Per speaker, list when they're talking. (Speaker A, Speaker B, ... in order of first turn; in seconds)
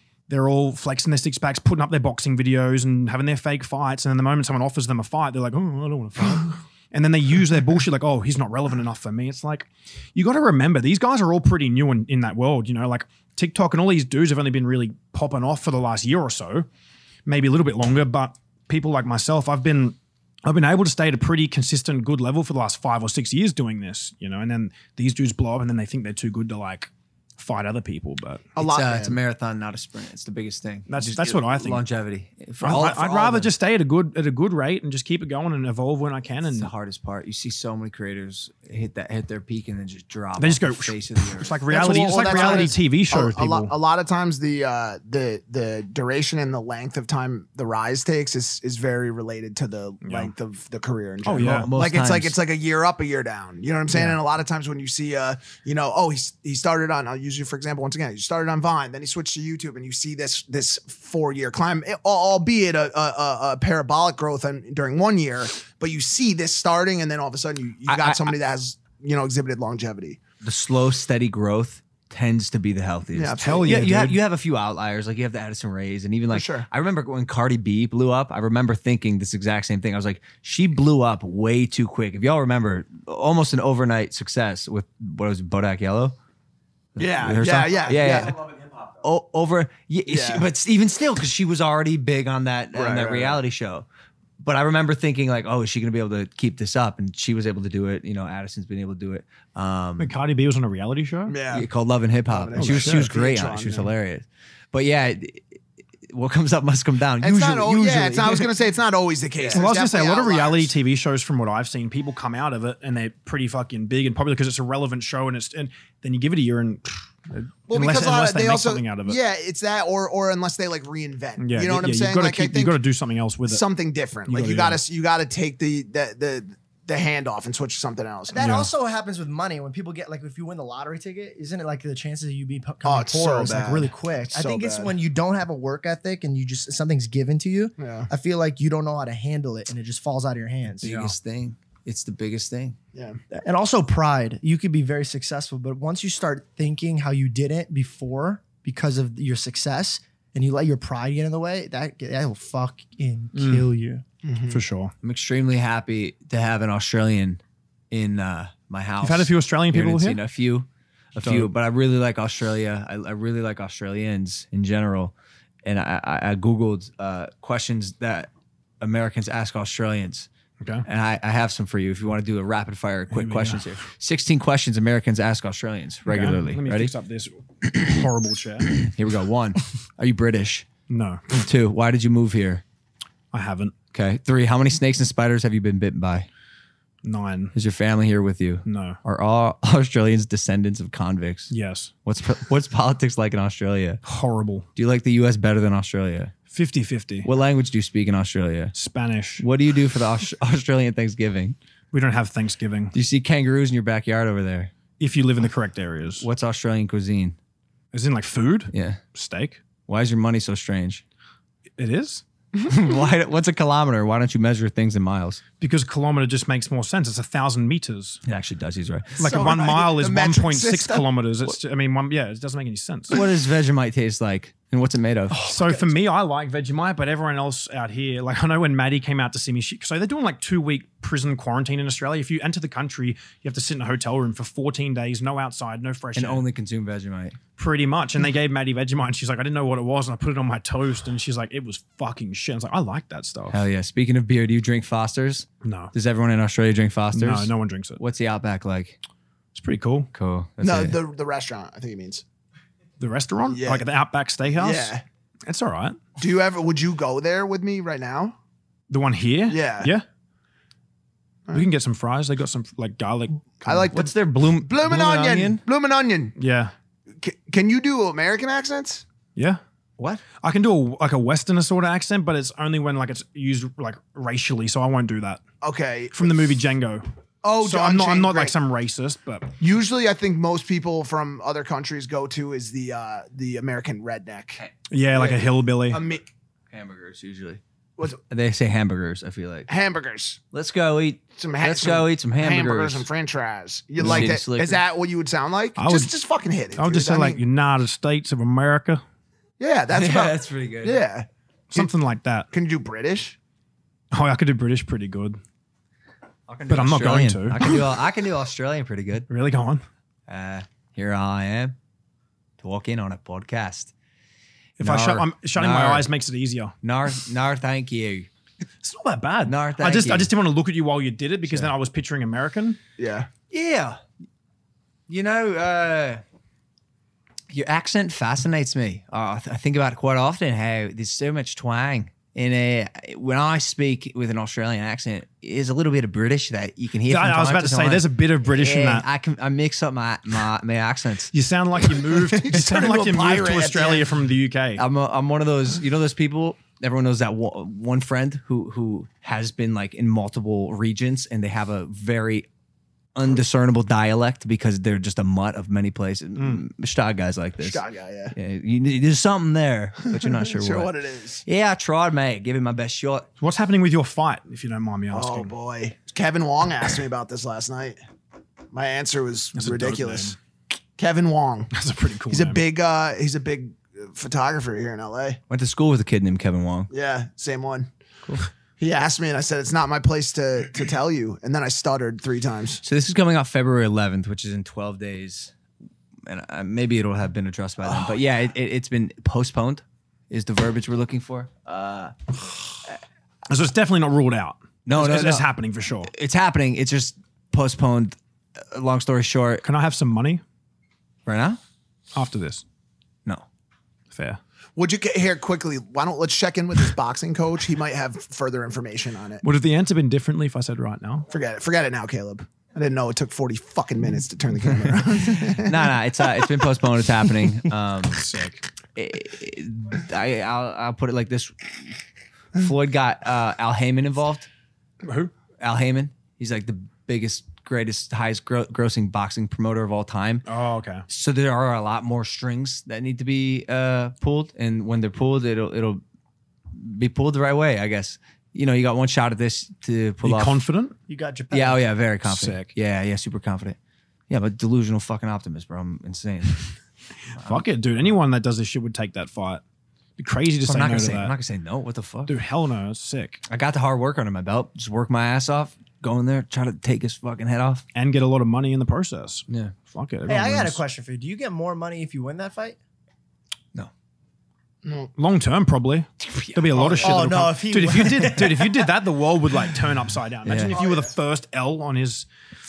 Speaker A: 0.3-16.6, 17.2-28.5, 30.9-31.8, 32.6-36.7, 40.4-43.7, 50.0-50.3, 51.2-51.7, 53.9-54.2, 73.4-74.2, 100.0-101.3, 102.5-103.1, 109.5-119.2, 121.4-123.6, 124.3-124.8, 128.4-128.7, 140.8-141.1, 153.3-153.7, 154.5-154.9, 159.0-160.2, 161.2-161.5, 170.6-170.8, 173.1-173.7, 176.1-178.8, 180.9-181.2, 183.3-183.7, 187.0-187.5, 188.6-189.0, 191.5-191.9, 194.0-194.7, 196.5-197.3, 198.7-199.4, 201.9-202.9, 205.0-206.3, 207.9-209.6, 211.8-212.2, 215.6-218.2, 219.2-223.1, 225.4-236.4, 237.6-243.6, 245.6-245.9, 247.1-248.0, 249.5-250.1, 253.0-254.9, 255.4-256.0, 258.9-260.0, 261.5-263.8, 266.4-266.7, 270.4-275.4, 276.1-277.0, 277.6-279.5, 284.9-286.0, 294.0-294.3, 295.8-296.1, 296.8-299.0, 301.7-302.5, 304.1-305.4, 306.7-307.8, 309.3-309.8, 314.8-316.7, 318.8-322.8, 337.1-339.1, 341.3-344.8, 356.4-356.6, 363.4-365.5, 369.5-370.4, 371.7-372.6, 393.5-396.1, 399.6-400.4, 402.1-402.6, 404.1-404.4, 409.4-411.3, 418.1-418.6, 425.0-425.3, 430.4-431.1, 440.2-440.9, 442.2-442.7, 447.4-449.6, 450.2-451.3, 452.3-453.4, 457.9-460.8, 465.1-472.3
Speaker B: 28.5-29.2, 41.7-70.2, 73.1-73.9, 76.3-76.7, 87.0-88.4, 90.1-90.4, 92.7-93.4, 101.3-101.7, 102.3-103.9, 107.2-110.7, 117.7-122.8, 123.5-128.4, 132.8-134.9, 137.8-138.1, 142.9-143.2, 154.2-154.6, 219.2-221.1, 250.6-252.2, 253.5-253.8, 254.6-255.0, 256.2-258.4, 259.5-259.9, 263.6-266.3, 267.2-269.0, 275.6-276.4, 277.4-278.5, 279.6-286.2, 289.7-290.4, 291.4-297.4, 299.6-301.9, 302.5-303.4, 323.0-323.3, 342.2-344.1, 357.6-358.3, 360.1-361.4, 365.1-368.0, 368.7-370.4, 371.0-371.7, 372.3-375.4, 376.9-377.9, 378.8-382.8, 404.8-409.4, 411.3-415.9, 464.8-465.1
Speaker C: 28.6-33.5, 36.5-42.7, 51.4-52.4, 67.9-68.3, 70.4-86.2, 86.9-93.8, 94.4-100.1, 101.5-108.5, 140.8-142.8, 155.0-170.3, 170.8-176.9, 178.8-180.7, 181.3-182.6, 183.9-186.3, 187.5-191.5, 192.1-194.0, 194.8-196.3, 197.2-198.7, 199.4-201.6, 202.9-204.7, 206.2-207.4, 208.7-209.0, 209.9-211.0, 212.7-215.4, 218.2-219.4, 223.1-225.4, 236.1-237.4, 243.5-249.0, 250.1-251.0, 263.9-265.6, 270.0-270.2, 286.7-289.7, 290.5-293.1, 294.0-294.8, 299.9-301.0, 306.5-309.3, 310.3-311.8, 312.6-313.9, 314.8-316.1, 316.8-318.3, 319.4-320.3, 321.4-321.7, 323.5-324.0, 325.1-326.2, 327.5-341.3, 344.8-352.5, 353.1-360.9, 361.4-363.3, 375.5-376.9, 382.8-385.5, 386.2-392.1, 394.9-395.5, 396.0-399.6, 401.2-401.6, 415.2-418.2, 418.9-421.9, 422.5-424.5, 425.6-430.4, 431.1-436.0, 436.7-440.6, 441.5-443.8, 444.3-446.7, 447.3-447.7, 450.6-452.4, 453.5-457.8, 459.5-459.7, 466.2-467.2, 470.4-470.8
Speaker D: 128.3-140.9, 143.3-154.0, 225.4-225.9, 441.1-441.8, 460.3-462.8, 467.0-468.9